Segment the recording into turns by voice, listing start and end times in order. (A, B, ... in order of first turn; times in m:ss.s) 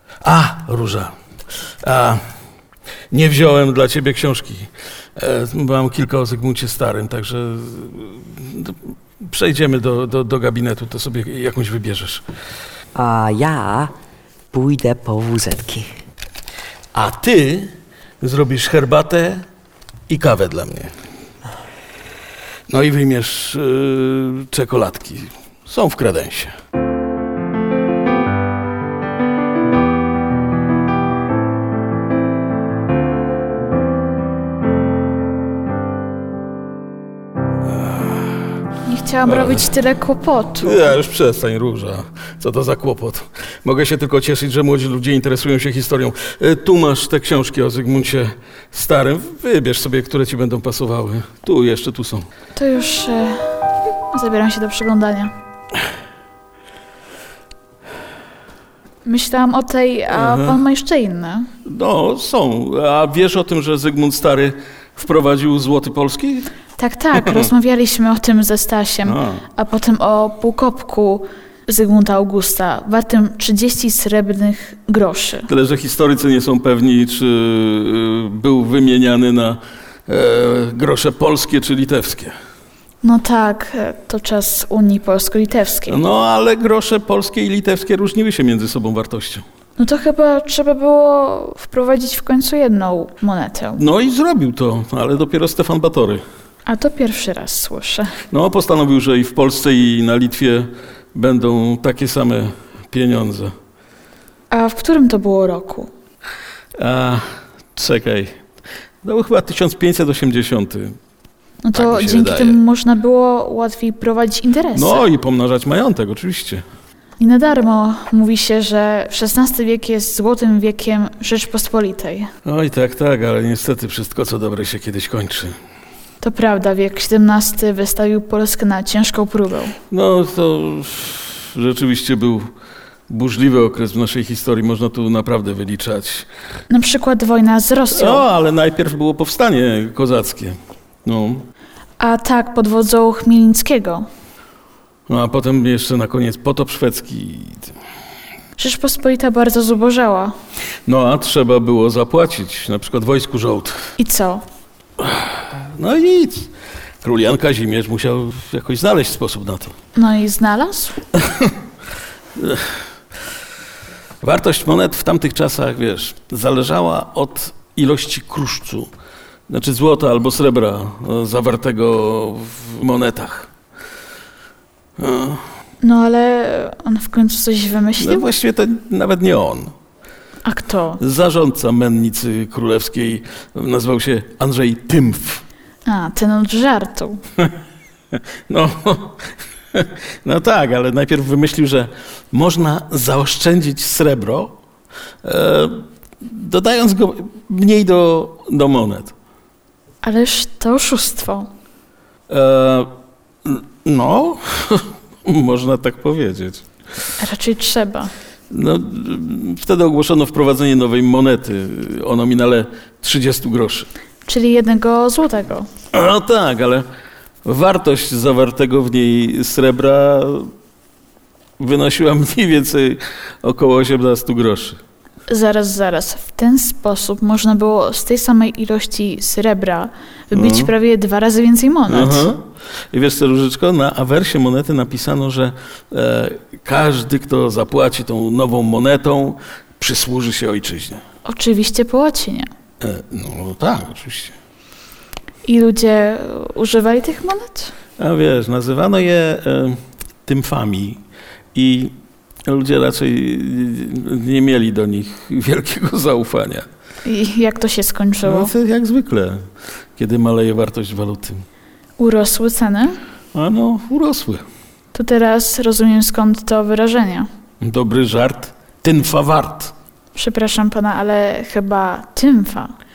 0:00.2-0:01.1 A
0:01.8-0:02.2 A
0:03.1-0:12.2 A
0:13.0-0:13.9 B
0:14.5-0:15.9 B
0:16.9-0:19.4 A
0:20.1-0:20.9 A
0:22.7-0:26.5 A
0:37.7-0:38.4 A
0:38.9-0:40.9 C
0:39.2-0:39.7 A
0:40.6-0:52.3 A
0:52.6-0:55.3 C
0:59.0-1:01.5 C
1:00.1-1:00.6 A
1:01.6-1:06.5 A
1:06.8-1:15.5 C
1:07.2-1:07.5 A
1:09.1-1:09.4 A
1:15.5-1:22.4 A
1:23.0-1:26.0 C
1:25.9-1:29.4 A
1:29.8-1:33.8 C
1:33.8-1:36.2 A
1:36.7-1:38.2 C
1:38.3-1:43.5 A
1:44.5-1:45.9 C
1:46.8-1:48.4 A
1:49.0-1:51.0 A
1:51.6-1:55.0 C
1:51.7-1:52.6 A
1:54.8-1:56.6 A
1:57.2-2:02.3 C
2:02.5-2:05.6 A
2:06.2-2:09.8 C
2:09.9-2:12.5 A
2:13.1-2:16.3 A
2:16.7-2:18.3 C
2:17.9-2:21.5 A
2:22.0-2:24.1 C
2:25.1-2:27.7 A
2:28.6-2:30.4 C
2:30.9-2:33.9 A
2:34.0-2:34.4 C
2:35.0-2:36.5 A
2:37.0-2:39.8 A
2:40.0-2:41.0 C
2:41.2-2:41.5 A
2:42.4-2:42.8 A
2:44.2-2:48.9 A
2:49.5-2:53.5 A
2:55.0-2:55.4 A
2:55.8-2:58.3 C
2:58.0-2:59.7 A
3:00.4-3:01.0 C
3:01.0-3:05.4 A
3:05.9-3:07.2 C
3:08.5-3:14.5 A
3:15.2-3:19.1 A
3:20.0-3:21.5 C
3:22.3-3:22.9 A
3:23.4-3:26.6 A
3:27.2-3:28.1 C
3:28.5-3:33.9 A
3:34.3-3:35.7 C
3:35.9-3:36.9 A
3:37.4-3:40.5 A
3:41.6-3:44.8 A
3:45.3-3:52.3 C
3:50.3-3:50.7 A
3:51.9-4:01.0 A
4:01.3-4:02.5 C
4:02.8-4:04.4 A
4:05.5-4:07.7 C
4:08.0-4:11.0 A
4:11.5-4:11.9 A
4:12.5-4:16.7 A
4:17.0-4:18.5 C
4:18.2-4:21.4 A
4:22.0-4:23.0 C
4:23.3-4:24.4 A
4:24.9-4:27.3 C
4:27.6-4:29.7 A
4:30.2-4:32.7 C